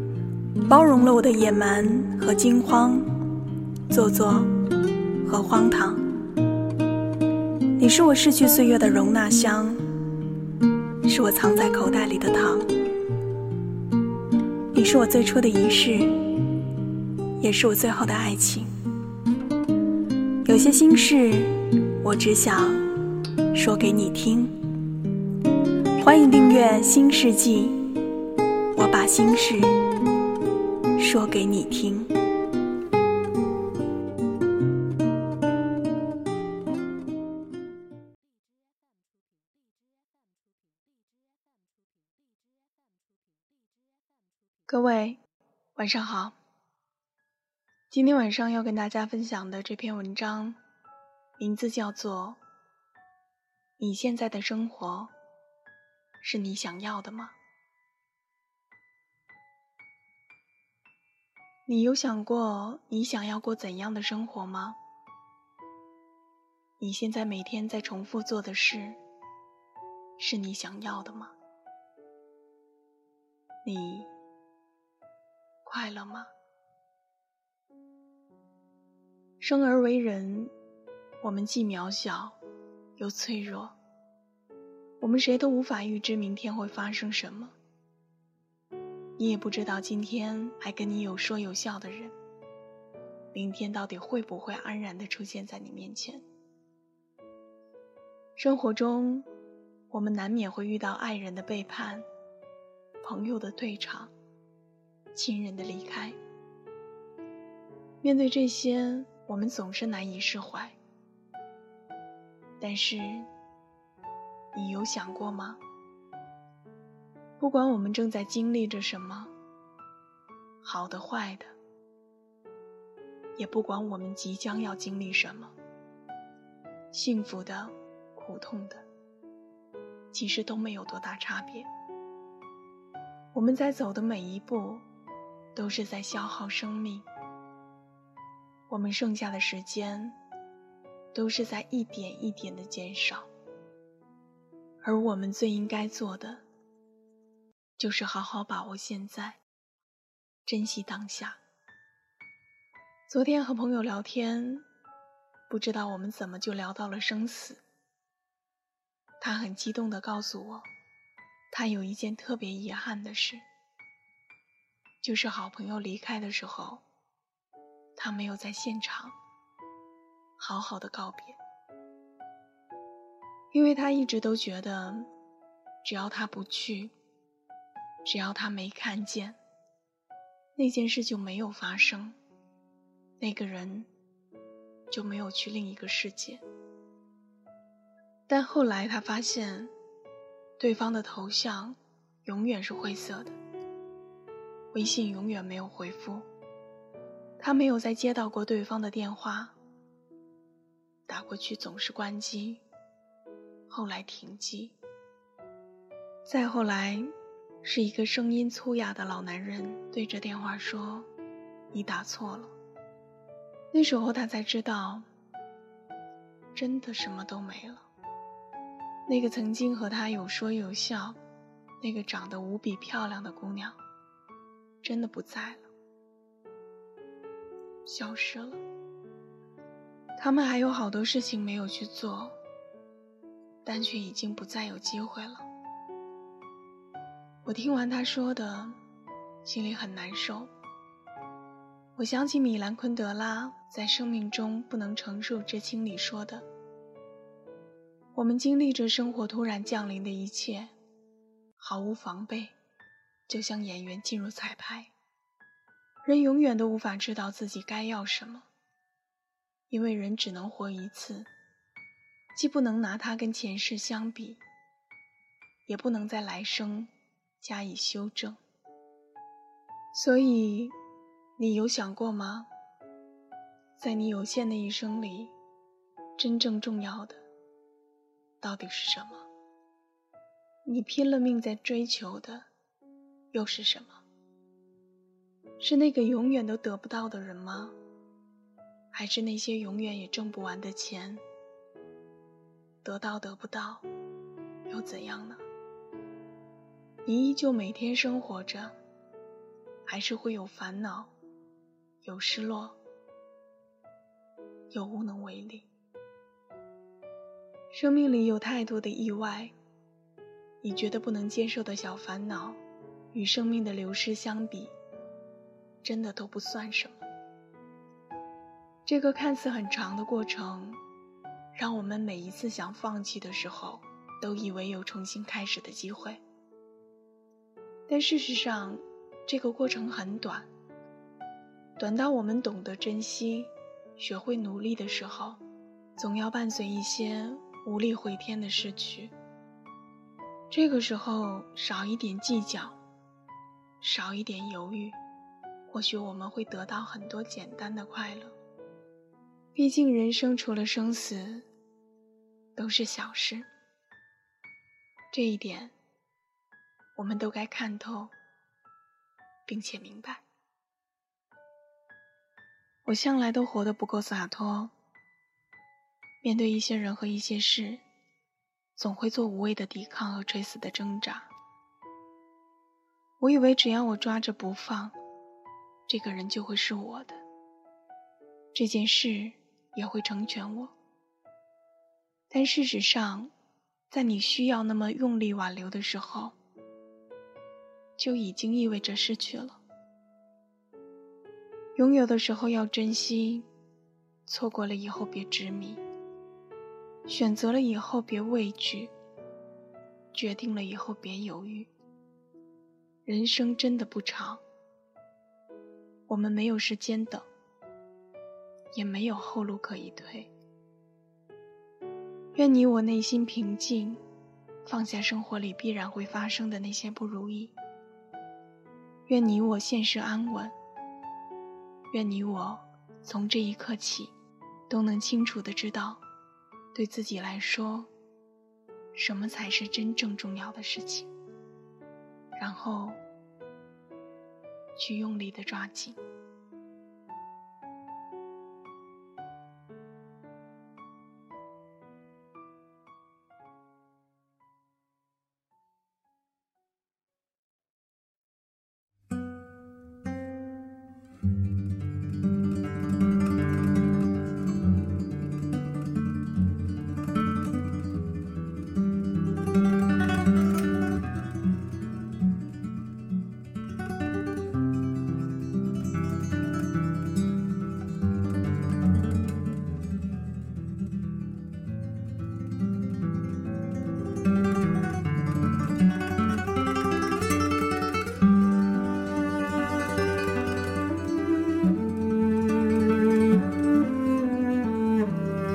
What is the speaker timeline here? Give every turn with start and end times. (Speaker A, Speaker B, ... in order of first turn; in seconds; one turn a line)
Speaker A: 0.7-3.2
Speaker A: 3.9-4.5
Speaker A: 5.2-6.0
Speaker A: 7.8-9.8
Speaker A: 11.0-12.7
Speaker A: 14.7-16.2
Speaker A: 17.4-18.7
Speaker A: 20.4-22.9
Speaker A: 23.5-24.6
Speaker A: 26.0-27.9
Speaker A: 28.7-29.8
Speaker A: 31.0-32.1
Speaker A: 44.7-45.2
Speaker A: 45.8-46.4
Speaker A: 47.9-50.6
Speaker A: 51.4-52.4
Speaker A: 53.8-55.1
Speaker A: 56.2-57.3
Speaker A: 61.6-64.8
Speaker A: 66.8-69.0
Speaker A: 70.2-71.3
Speaker A: 73.6-74.1
Speaker A: 75.6-76.3
Speaker A: 79.4-80.5
Speaker A: 81.2-82.4
Speaker A: 83.0-83.7
Speaker A: 85.0-87.5
Speaker A: 89.2-92.1
Speaker A: 93.3-96.2
Speaker A: 98.4-99.3
Speaker A: 99.9-102.0
Speaker A: 103.0-104.1
Speaker A: 105.1-106.2
Speaker A: 108.0-110.8
Speaker A: 112.6-113.3
Speaker A: 114.5-115.6
Speaker A: 117.4-119.3
Speaker A: 120.6-121.5
Speaker A: 123.3-125.5
Speaker A: 126.9-128.8
Speaker A: 130.1-131.7
Speaker A: 133.3-134.8
Speaker A: 135.5-137.1
Speaker A: 138.7-140.2
Speaker A: 141.1-143.3
Speaker A: 144.8-146.4
Speaker A: 147.8-149.4
Speaker A: 150.4-151.4
Speaker A: 153.1-154.7
Speaker A: 155.5-157.6
Speaker A: 159.2-160.7
Speaker A: 161.5-163.4
Speaker A: 165.0-166.8
Speaker A: 167.9-169.2
Speaker A: 170.4-171.4
Speaker A: 173.5-175.1
Speaker A: 175.8-176.9
Speaker A: 178.0-179.4
Speaker A: 180.6-182.2
Speaker A: 183.2-183.9
Speaker A: 184.9-186.4
Speaker A: 188.3-189.7
Speaker A: 190.6-193.3
Speaker A: 194.7-196.2
Speaker A: 197.4-199.5
Speaker A: 201.1-202.6
Speaker A: 203.7-204.8
Speaker A: 206.2-207.1
Speaker A: 207.6-211.1
Speaker A: 211.7-212.5
Speaker A: 213.7-215.1
Speaker A: 216.5-217.9
Speaker A: 219.1-221.2
Speaker A: 221.8-223.8
Speaker A: 224.8-225.7
Speaker A: 227.8-228.6
Speaker A: 230.2-232.4
Speaker A: 233.6-235.4
Speaker A: 237.4-238.8
Speaker A: 239.4-240.5
Speaker A: 241.9-246.4
Speaker A: 248.1-250.7
Speaker A: 251.6-252.5
Speaker A: 253.3-254.9
Speaker A: 256.0-258.5
Speaker A: 259.7-261.3
Speaker A: 262.3-264.4
Speaker A: 265.7-268.4
Speaker A: 269.9-270.8
Speaker A: 271.4-272.5
Speaker A: 273.8-275.3
Speaker A: 276.2-277.2
Speaker A: 278.4-279.3
Speaker A: 280.6-282.5
Speaker A: 283.3-284.0
Speaker A: 285.6-287.8
Speaker A: 288.9-291.2
Speaker A: 292.8-293.9
Speaker A: 294.7-295.4
Speaker A: 297.0-298.7
Speaker A: 299.9-301.1
Speaker A: 302.0-302.8
Speaker A: 304.7-305.7
Speaker A: 307.7-309.5
Speaker A: 310.6-312.6
Speaker A: 313.1-314.7
Speaker A: 315.8-317.0
Speaker A: 318.9-320.8
Speaker A: 321.5-326.2
Speaker A: 327.9-330.5
Speaker A: 331.8-335.4
Speaker A: 336.0-339.1
Speaker A: 340.5-342.8
Speaker A: 343.8-345.0
Speaker A: 345.7-348.3
Speaker A: 349.5-351.4
Speaker A: 352.6-353.5
Speaker A: 355.1-355.7
Speaker A: 356.9-358.1
Speaker A: 359.4-360.2
Speaker A: 362.8-364.7
Speaker A: 366.2-367.8
Speaker A: 368.8-371.3
Speaker A: 373.2-374.9
Speaker A: 375.9-377.2
Speaker A: 378.5-380.7
Speaker A: 382.3-383.3
Speaker A: 383.9-386.3
Speaker A: 388.0-389.6
Speaker A: 391.8-393.5
Speaker A: 394.2-395.8
Speaker A: 397.1-398.9
Speaker A: 400.1-401.7
Speaker A: 403.1-404.4
Speaker A: 406.1-407.3
Speaker A: 408.7-410.3
Speaker A: 412.3-414.0
Speaker A: 414.6-417.5
Speaker A: 419.1-420.5
Speaker A: 421.9-424.1
Speaker A: 424.7-426.0
Speaker A: 426.7-427.9
Speaker A: 428.9-431.1
Speaker A: 432.4-433.0
Speaker A: 434.8-436.0